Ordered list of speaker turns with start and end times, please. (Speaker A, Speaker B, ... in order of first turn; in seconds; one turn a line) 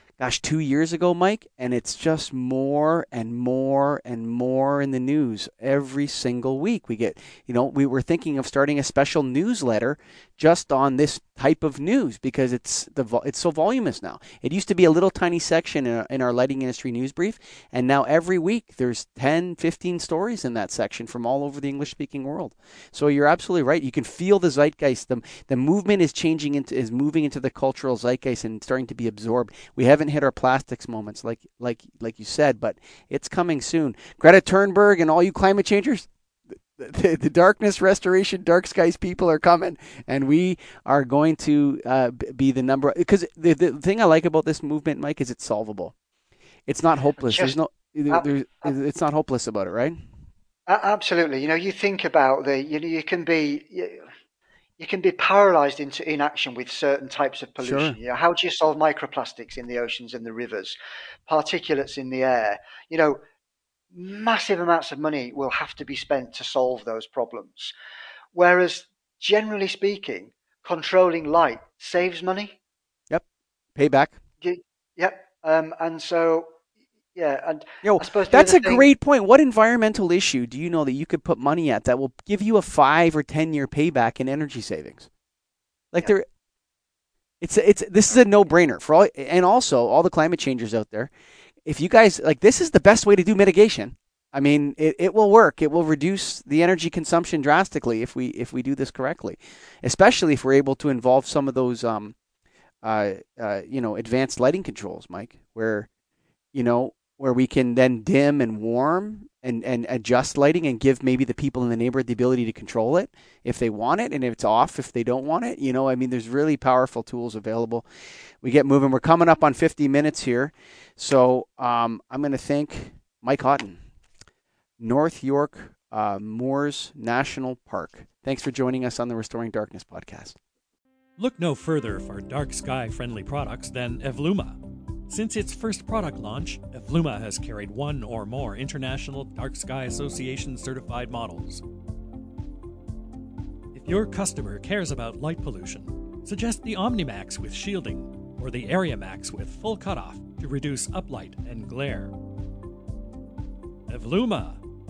Speaker A: 0.2-45.9
Speaker A: 46.7-50.0
Speaker B: 47.2-47.6
Speaker B: 48.1-48.7
Speaker B: 50.7-54.1
Speaker B: 54.8-63.2
Speaker A: 57.6-58.0
Speaker B: 63.9-67.7
Speaker B: 68.3-72.6
Speaker A: 73.1-74.2
Speaker B: 74.4-76.6
Speaker B: 77.1-78.9
Speaker A: 77.8-85.1
Speaker A: 85.9-86.3
Speaker A: 87.4-91.1
Speaker A: 91.7-102.2
Speaker A: 102.8-105.9
Speaker A: 106.5-117.9
Speaker A: 118.4-123.8
Speaker A: 124.8-130.4
Speaker C: 131.2-134.6
Speaker C: 135.1-141.6
Speaker C: 143.7-152.1
Speaker C: 153.9-154.6